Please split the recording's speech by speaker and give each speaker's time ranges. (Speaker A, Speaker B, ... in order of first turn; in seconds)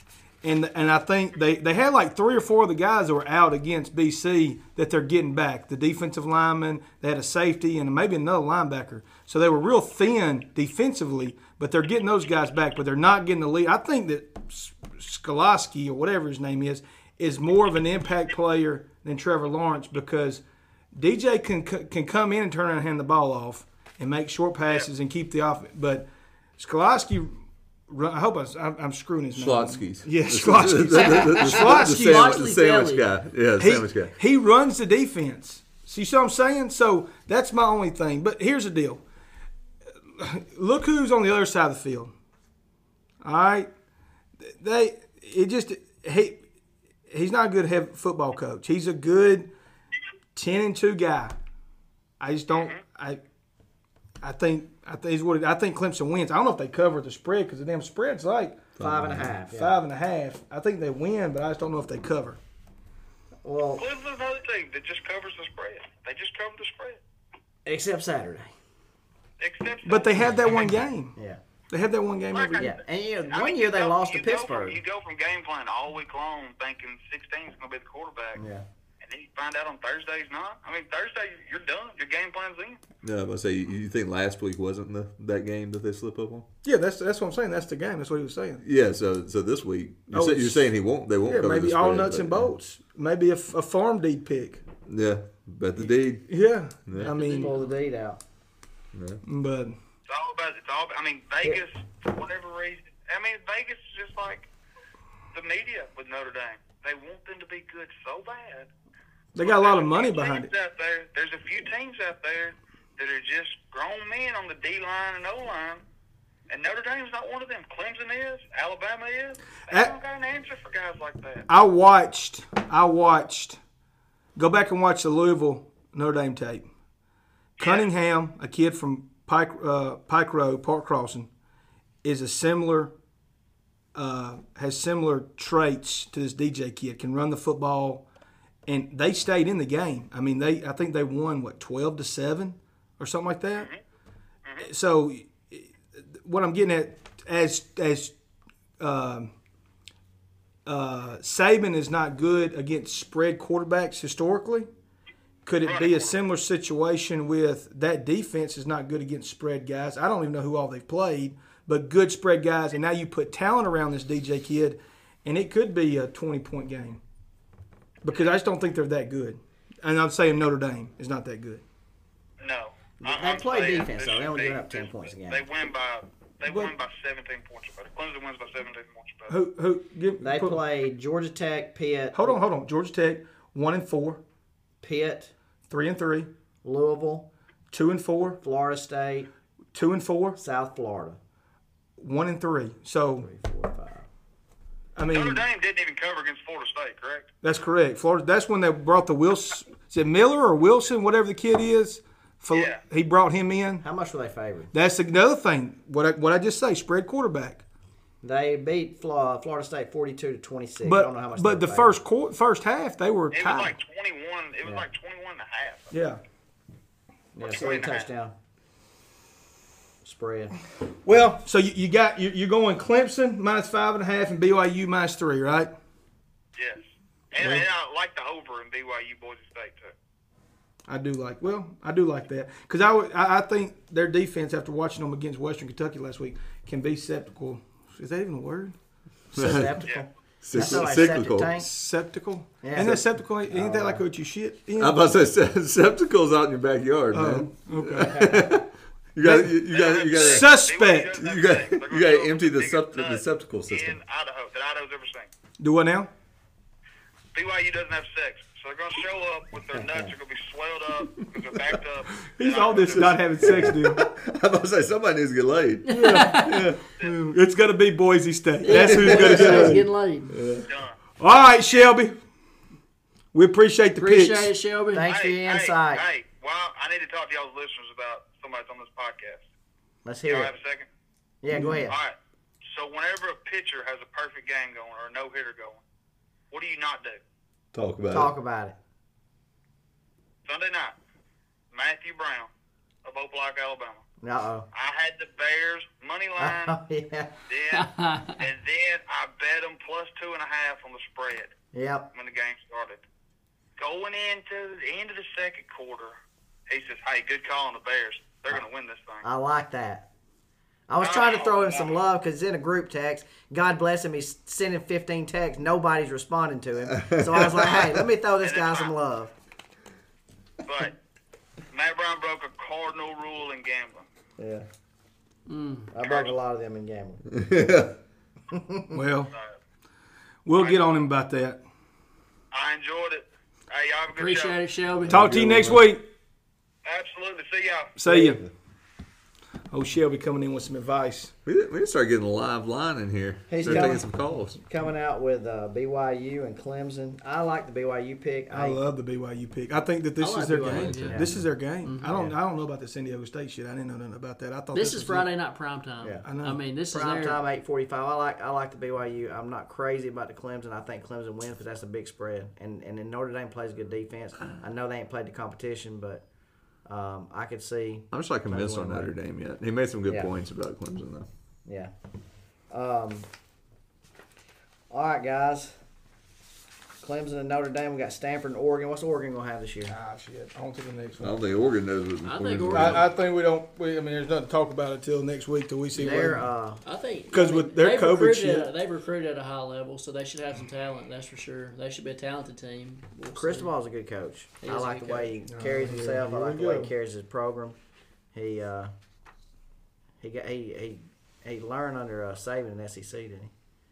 Speaker A: 0.4-20.4, 20.9-26.1, 26.6-27.4, 27.9-32.4, 33.6-39.0, 40.1-42.1, 43.2-43.7, 44.4-46.4, 47.1-49.5, 50.4-51.4, 52.2-53.2, 54.2-58.6, 59.5-62.4, 69.8-71.2, 71.7-72.7, 86.6-88.6, 90.1-90.7, 91.2-94.6, 96.3-97.5, 99.2-99.8, 109.3-110.5, 121.5-123.6, 124.4-126.7, 127.6-131.3, 132.0-132.9, 133.9-138.1, 138.7-143.7, 144.6-148.1, 148.8-149.3, 150.7-154.7, 155.4-167.0, 168.0-171.6, 176.4-176.7, 179.3-180.6, 182.1-184.2, 185.7-186.3, 187.7-188.4, 189.7-190.4, 192.0-193.3, 195.0-195.4, 197.4-203.8, 204.7-207.6, 210.8-213.8, 215.9-216.2, 221.0-225.7, 227.4-227.7, 230.9-238.8, 240.5-245.0, 247.1-248.4, 249.2-249.6, 250.2-251.2, 255.6-256.1, 262.4-264.1, 265.9-269.8, 271.2-272.2, 273.3-274.5, 328.9-329.3, 330.5-331.6, 335.1-336.1, 338.0-338.4, 339.7-341.3, 343.6-344.0, 348.5-355.3, 356.2-356.6, 379.9-381.4, 382.7-386.5, 387.3-388.7, 395.5-396.9
Speaker B: 29.4-34.1, 58.8-59.3, 83.0-86.5, 88.6-92.5, 94.9-96.3, 96.9-97.2, 98.9-99.2, 239.3-239.7, 240.4-241.5, 244.8-250.6, 251.1-254.0, 263.4-266.8, 268.7-270.6, 287.7-288.3, 317.0-318.0, 327.3-327.9, 335.0-335.9, 341.4-344.6, 350.6-351.4, 368.1-371.3, 381.2-383.1
Speaker C: 31.4-33.1, 97.0-97.8, 265.9-266.7, 268.6-270.4, 274.0-275.1, 297.7-298.4, 325.5-325.9, 334.1-335.4, 350.2-351.3, 351.8-352.2, 354.7-357.4, 382.2-383.1, 386.8-393.7, 394.6-395.4
Speaker D: 52.5-52.8, 63.8-67.0, 69.4-70.5, 72.3-72.7, 73.3-78.4, 79.0-82.8, 100.1-104.5, 105.3-108.7, 109.4-115.8, 116.5-121.5, 127.6-127.9, 143.6-143.8, 155.6-156.2, 172.4-179.3, 195.1-197.3, 202.5-202.8, 213.3-215.9, 217.4-218.1, 226.6-229.9, 249.7-255.3, 257.3-263.3, 270.7-271.0, 275.1-279.5, 280.2-280.9, 281.9-285.8, 286.5-287.2, 290.4-291.0, 291.7-292.5, 293.0-294.0, 294.7-296.8, 297.5-301.5, 302.1-303.0, 303.8-306.2, 306.7-309.2, 311.0-312.0, 318.4-318.9, 320.6-321.0, 321.7-324.1, 326.0-326.4, 329.3-329.6, 332.5-334.6, 336.9-338.0
Speaker E: 58.8-59.8, 63.4-63.9, 67.7-68.5, 71.2-71.4, 72.6-74.8, 78.4-78.7, 97.3-98.2, 173.0-175.4, 180.2-182.4, 184.8-185.3, 186.6-187.3, 188.4-189.3, 190.4-191.2, 193.2-194.1, 203.8-204.7, 208.2-211.9, 217.3-218.3, 220.0-220.6, 239.3-241.7, 242.6-244.0, 248.1-248.5, 259.7-260.1, 274.9-276.1, 280.0-280.5, 281.4-282.0, 288.1-288.8, 294.2-294.7, 296.4-297.4, 301.7-302.1, 309.2-310.1, 310.9-319.3, 324.4-324.7, 325.9-327.2, 328.5-329.0, 338.1-338.4, 343.5-344.1, 344.6-348.8, 356.9-366.2, 366.9-369.1, 371.7-371.9, 372.7-373.3, 374.9-375.7, 377.0-379.9, 385.9-386.8, 393.4-397.8, 398.3-398.9, 400.2-403.5